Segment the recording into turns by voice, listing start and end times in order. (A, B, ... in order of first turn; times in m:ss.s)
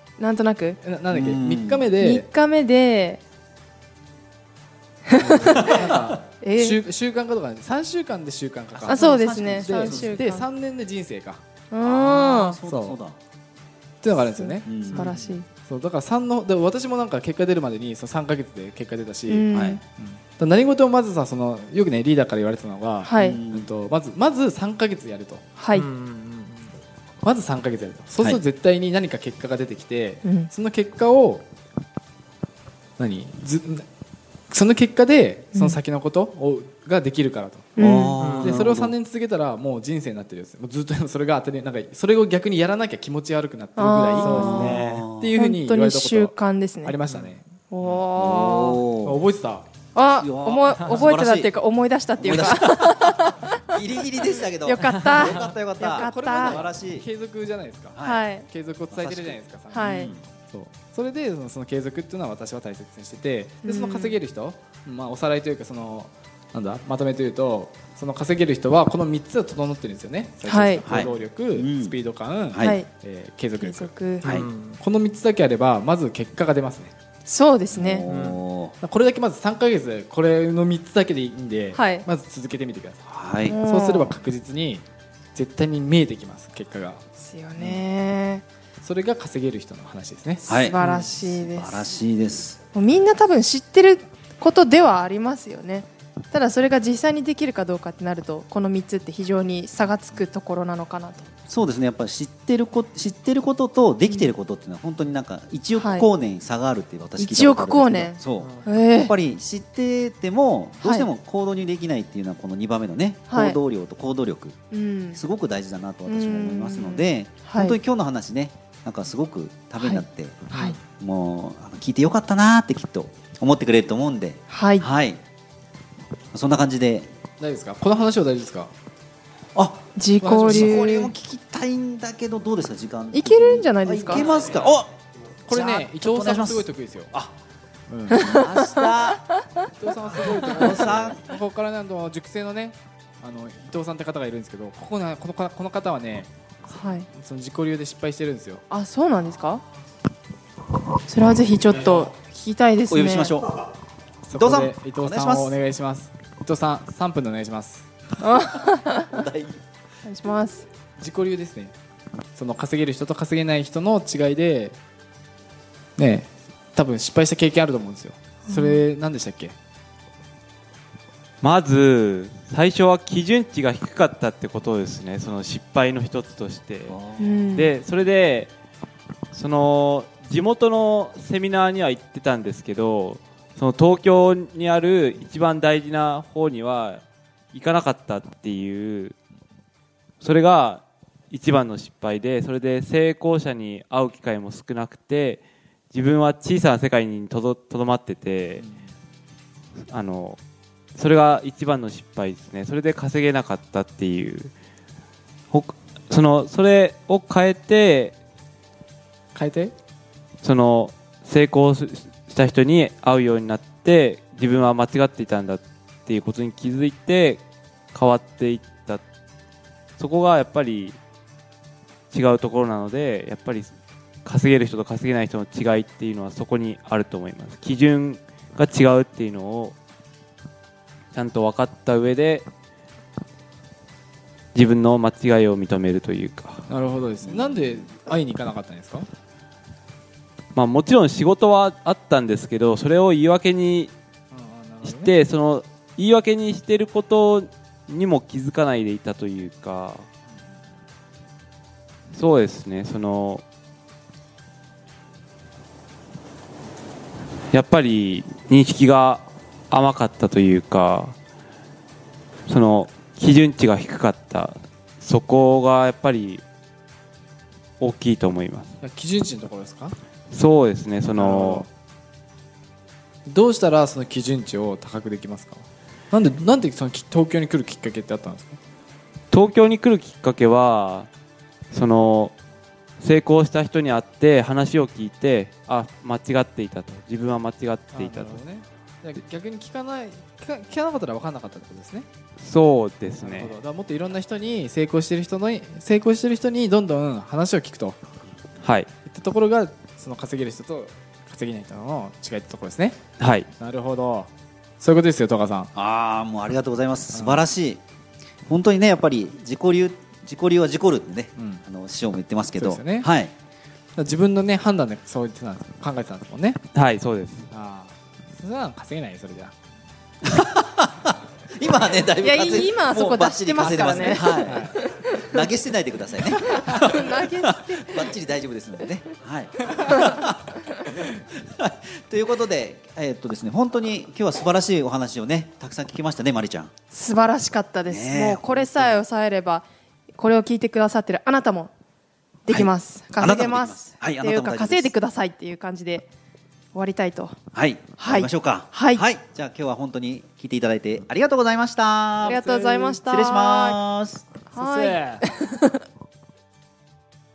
0:00.2-0:00.8 A
0:00.8-0:02.3 B
0:01.1-0:01.9 C
0:02.0-0:03.2 A
0:05.1-0:05.7 A
0:05.2-0:11.4 B
0:05.5-0:05.8 C
0:06.4-0:06.8 A
0:08.7-0:10.2 C
0:08.9-0:10.4 A
0:11.7-0:12.6 A
0:11.8-0:13.2 C
0:12.6-0:13.0 B
0:14.0-0:19.4 B
0:14.3-0:15.5 A
0:14.6-0:15.1 C
0:19.3-0:19.8 A
0:19.5-0:19.8 C
0:20.0-0:25.4 B
0:23.0-0:23.4 A
0:23.2-0:23.7 C
0:25.6-0:25.9 A
0:25.8-0:26.7 D
0:27.2-0:31.4 B
0:30.2-0:30.5 A
0:33.0-0:33.8 B
0:34.5-0:47.4 B
0:37.8-0:38.2 A
0:37.8-0:38.9 C
0:43.8-0:44.7 A
0:44.2-0:45.3 C
0:44.3-0:45.0 D
0:45.4-0:47.0 A
0:47.7-0:48.8 A
0:47.8-0:49.2 C
0:49.0-0:49.7 B
0:49.9-0:53.7 A
0:50.2-0:51.5 C
0:52.2-0:57.0 C
0:54.6-0:56.6 A
0:55.0-0:55.5 D
0:55.8-1:16.9 B
0:58.0-0:58.2 C
0:58.0-0:58.5 A
0:58.9-1:00.2 C
0:59.7-1:00.1 A
1:03.6-1:04.2 A
1:10.4-1:10.8 A
1:10.8-1:12.0 C
1:12.5-1:12.8 C
1:12.6-1:12.9 A
1:13.6-1:14.3 A
1:14.2-1:14.5 C
1:14.2-1:14.7 E
1:17.3-1:18.0 A
1:17.7-1:18.7 C
1:18.1-1:18.4 E
1:18.8-1:24.8 B
1:21.7-1:22.1 A
1:23.1-1:23.6 C
1:23.5-1:24.2 A
1:25.4-1:27.0 B
1:27.2-1:28.4 A
1:28.8-1:30.6 B
1:30.5-1:32.6 C
1:30.6-1:31.9 A
1:32.7-1:41.3 A
1:41.5-1:54.6 C
1:45.8-1:46.1 A
1:47.2-1:49.1 A
1:50.8-1:51.1 A
1:53.3-1:53.6 A
1:54.7-1:55.2 A
1:55.1-2:00.4 C
1:56.1-1:57.8 A
1:59.8-2:00.8 A
2:01.0-2:05.2 C
2:04.5-2:04.9 A
2:06.3-2:07.1 C
2:07.4-2:08.7 B
2:09.6-2:09.9 C
2:10.0-2:11.1 A
2:10.2-2:10.8 B
2:10.5-2:14.9 C
2:13.1-2:14.4 A
2:15.5-2:17.1 B
2:15.5-2:17.3 C
2:17.9-2:18.3 B
2:18.2-2:18.4 A
2:18.2-2:19.3 C
2:19.8-2:28.6 B
2:20.2-2:21.3 C
2:26.7-2:27.1 A
2:28.7-2:29.6 A
2:31.1-2:33.3 A
2:32.9-2:33.7 C
2:34.2-2:37.9 B
2:34.3-2:35.6 C
2:38.2-2:39.2 A
2:39.1-2:39.6 C
2:40.0-2:40.6 A
2:41.0-2:41.8 B
2:42.4-2:44.8 B
2:46.0-2:49.6 B
2:48.5-2:48.8 A
2:51.4-2:57.0 E
2:56.9-2:57.5 C
2:57.2-2:57.7 A
2:57.5-2:58.5 E
2:59.3-3:09.2 E
3:10.2-3:18.6 E
3:19.9-3:20.4 E
3:21.0-3:24.5 E
3:25.5-3:28.2 E
3:29.3-3:29.7 B
3:30.4-3:37.4 E
3:37.9-3:39.0 E
3:40.0-3:41.0 E
3:42.1-3:43.7 E
3:44.2-3:49.8 E
3:51.1-3:52.5 E
3:54.6-3:56.7 E
3:56.7-3:59.1 B
3:57.2-3:57.9 C
4:00.6-4:03.9 E
4:04.3-4:05.1 B
4:04.8-4:10.1 E
4:12.1-4:13.4 E
4:17.5-4:21.2 E
4:22.5-4:26.4 E
4:27.8-4:28.7 E
4:28.8-4:30.0 B
4:30.3-4:31.7 E
4:31.1-4:31.7 B
4:33.3-4:38.6 B
4:39.3-4:41.1 E
4:41.7-4:42.3 E
4:43.0-4:48.4 E
4:47.9-4:52.1 B
4:52.4-4:53.6 E
4:53.2-4:58.0 B
4:58.6-4:58.9 E
4:59.1-5:03.0 B
5:03.2-5:03.5 E
5:03.6-5:04.3 B
5:04.8-5:05.7 B
5:05.8-5:07.8 C
5:07.1-5:07.4 B
5:08.5-5:13.3 C
5:11.4-5:11.6 B
5:12.6-5:13.1 B
5:14.0-5:16.6 B
5:16.7-5:17.5 E
5:17.5-5:19.5 B
5:20.2-5:36.7 C
5:22.2-5:25.4 A
5:24.3-5:24.8 B
5:26.5-5:28.1 A
5:29.8-5:30.1 A
5:36.9-5:39.6 A
5:37.9-5:39.0 C
5:40.2-5:41.7 A
5:42.5-5:46.1 A
5:42.5-5:44.9 C
5:46.7-5:47.4 A
5:47.5-5:52.4 C
5:48.0-5:49.0 A
5:52.2-5:53.8 A
5:52.4-5:52.9 E
5:53.0-5:54.3 C
5:54.5-5:55.8 A
5:54.6-5:55.1 E